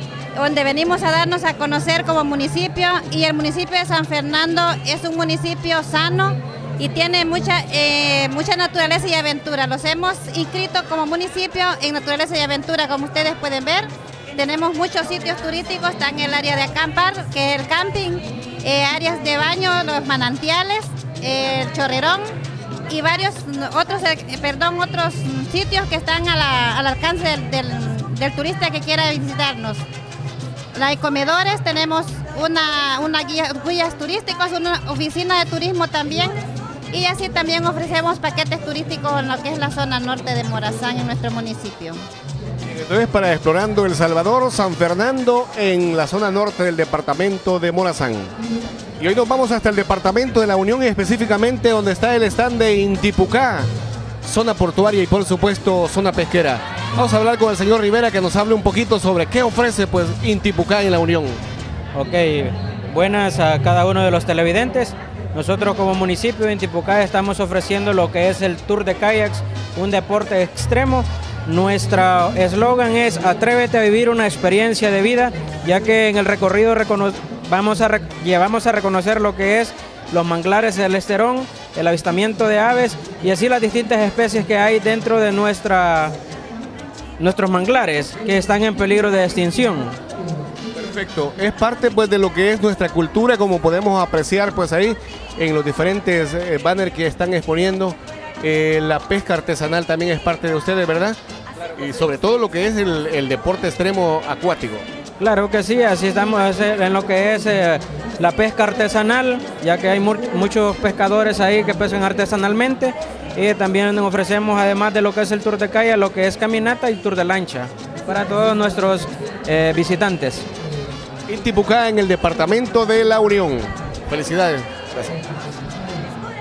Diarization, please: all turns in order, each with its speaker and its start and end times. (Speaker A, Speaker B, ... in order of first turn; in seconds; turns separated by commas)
Speaker A: 0.4-22.3, Speaker A: 22.9-29.8, Speaker A: 30.8-36.4, Speaker A: 36.9-42.0, Speaker B: 42.6-48.3, Speaker B: 49.0-53.7, Speaker B: 54.2-61.4, Speaker C: 62.0-86.2, Speaker C: 87.2-90.0, Speaker B: 90.8-101.2, Speaker B: 101.8-104.8, Speaker C: 105.2-120.5, Speaker B: 121.3-125.1